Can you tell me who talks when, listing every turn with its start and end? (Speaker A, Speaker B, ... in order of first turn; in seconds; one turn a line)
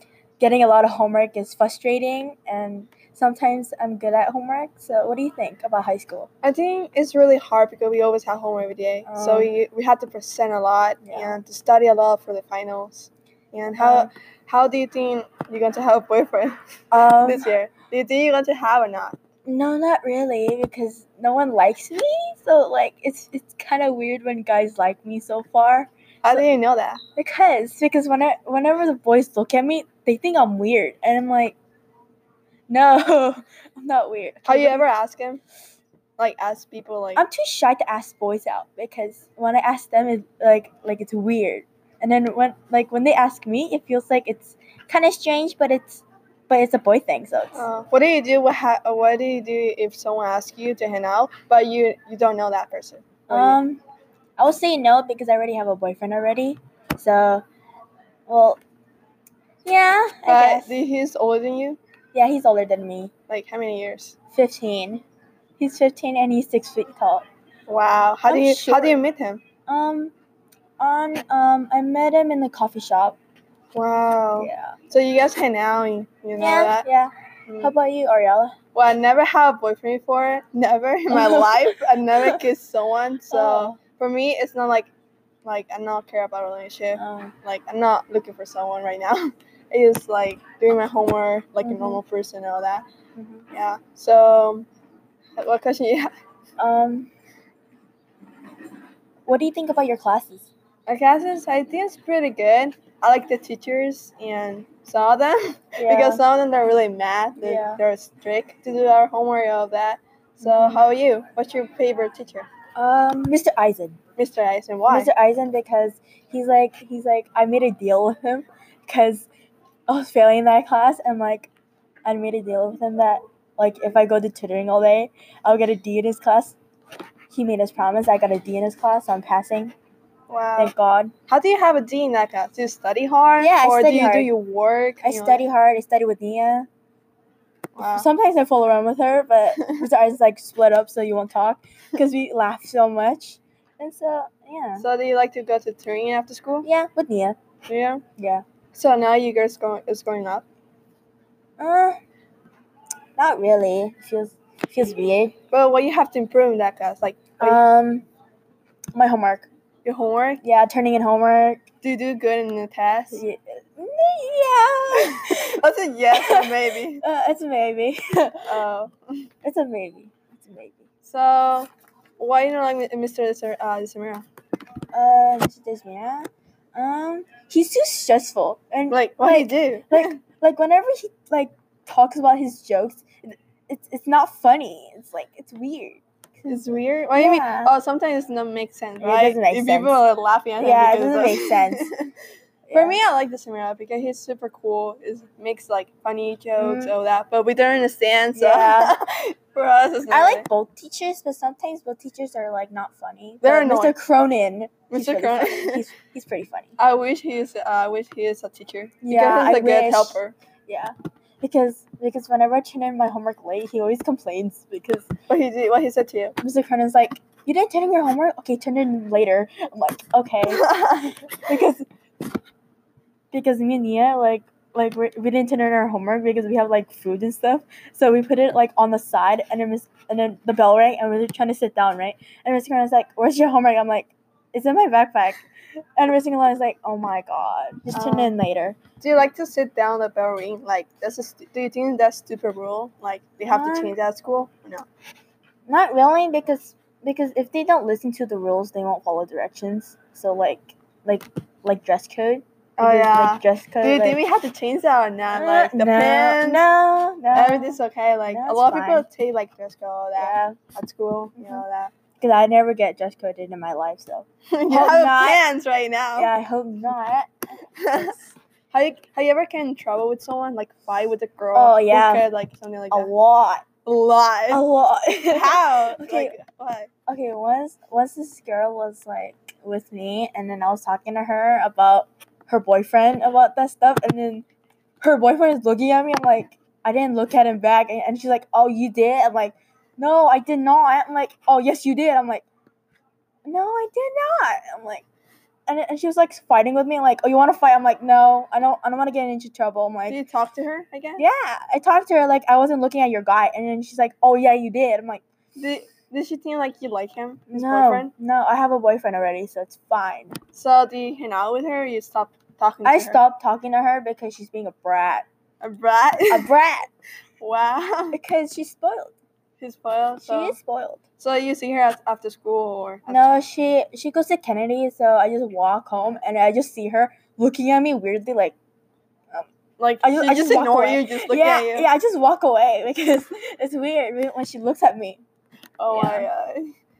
Speaker A: 0.4-6.3
Speaker B: 6.4-16.6
Speaker A: 9.1-9.5
Speaker A: 11.0-11.4
Speaker A: 13.8-14.1
Speaker A: 16.9-17.5
Speaker B: 17.2-19.2
Speaker A: 19.4-26.4
Speaker B: 26.2-27.0
Speaker A: 27.1-31.6
Speaker A: 32.7-34.9
Speaker B: 34.4-35.4
Speaker B: 36.2-37.2
Speaker A: 37.1-47.7
Speaker B: 47.5-53.6
Speaker A: 53.3-53.8
Speaker A: 54.4-57.4
Speaker A: 58.3-58.6
Speaker A: 59.6-60.8
Speaker B: 60.2-61.8
Speaker A: 62.1-63.1
Speaker B: 63.3-64.1
Speaker A: 64.3-65.0
Speaker A: 65.6-67.2
Speaker B: 67.7-69.4
Speaker A: 68.2-69.0
Speaker A: 69.7-70.1
Speaker A: 70.8-73.2
Speaker B: 73.7-76.9
Speaker A: 74.4-74.7
Speaker A: 76.4-78.5
Speaker B: 77.5-77.7
Speaker B: 78.7-84.9
Speaker A: 81.1-81.6
Speaker A: 83.3-83.8
Speaker B: 85.4-92.8
Speaker A: 87.0-87.3
Speaker A: 91.6-92.0
Speaker A: 93.2-93.5
Speaker B: 93.5-94.7
Speaker B: 95.4-96.1
Speaker A: 96.6-97.1
Speaker A: 99.2-100.5
Speaker B: 100.9-112.5
Speaker A: 105.8-106.2
Speaker A: 107.4-107.8
Speaker A: 110.4-110.8
Speaker A: 112.8-114.0
Speaker B: 114.2-115.1
Speaker A: 114.9-119.3
Speaker A: 119.9-121.5
Speaker A: 122.0-126.6
Speaker A: 127.3-129.7
Speaker B: 130.3-130.7
Speaker A: 130.6-131.1
Speaker B: 131.3-135.4
Speaker A: 133.4-134.3
Speaker A: 135.0-136.7
Speaker B: 137.8-138.1
Speaker A: 137.8-144.8
Speaker B: 144.8-146.7
Speaker A: 146.6-147.4
Speaker B: 147.7-148.0
Speaker A: 148.2-148.4
Speaker B: 148.7-150.4
Speaker A: 151.6-152.0
Speaker A: 153.2-155.3
Speaker B: 155.5-157.6
Speaker A: 157.4-158.1
Speaker A: 158.9-159.5
Speaker B: 159.8-160.4
Speaker A: 160.4-161.6
Speaker B: 161.8-163.2
Speaker A: 163.1-165.6
Speaker B: 164.9-167.0
Speaker A: 166.1-166.5
Speaker A: 167.0-168.6
Speaker B: 168.4-169.3
Speaker A: 169.4-170.8
Speaker B: 171.0-174.2
Speaker A: 174.9-186.0
Speaker B: 178.9-180.2
Speaker B: 186.4-192.1
Speaker A: 187.1-187.7
Speaker A: 189.0-190.0
Speaker A: 190.6-191.9
Speaker A: 192.7-193.0
Speaker B: 192.7-200.5
Speaker A: 196.6-196.9
Speaker A: 198.3-198.9
Speaker A: 200.1-206.7
Speaker B: 203.4-203.9
Speaker B: 204.9-205.8
Speaker B: 206.8-210.3
Speaker A: 209.0-215.1
Speaker B: 215.3-216.3
Speaker A: 216.4-221.8
Speaker B: 220.5-221.3
Speaker A: 223.3-235.4
Speaker A: 236.0-238.8
Speaker B: 237.9-238.3
Speaker B: 239.0-244.9
Speaker A: 243.5-243.9
Speaker A: 245.7-254.2
Speaker B: 252.8-256.6
Speaker A: 255.3-259.1
Speaker B: 257.3-261.9
Speaker A: 260.1-260.6
Speaker A: 261.4-261.6
Speaker A: 262.2-265.4
Speaker B: 264.5-266.3
Speaker A: 266.2-268.4
Speaker B: 267.8-268.1
Speaker B: 268.7-273.1
Speaker A: 271.5-272.2
Speaker A: 272.9-273.6
Speaker B: 273.8-274.6
Speaker A: 274.5-276.3
Speaker B: 275.2-276.9
Speaker A: 277.1-284.4
Speaker A: 285.0-292.4
Speaker A: 293.4-295.0
Speaker A: 295.7-300.2
Speaker B: 300.1-301.2
Speaker A: 301.2-305.2
Speaker B: 305.6-308.1
Speaker A: 307.5-310.4
Speaker B: 310.5-313.2
Speaker A: 312.8-315.2
Speaker B: 315.6-316.5
Speaker A: 316.3-316.9
Speaker B: 317.4-318.2
Speaker A: 318.1-319.1
Speaker B: 319.6-320.6
Speaker A: 320.2-321.0
Speaker B: 321.2-323.4
Speaker A: 323.1-328.6
Speaker B: 329.8-331.9
Speaker A: 330.0-335.2
Speaker B: 335.8-336.7
Speaker A: 335.9-336.3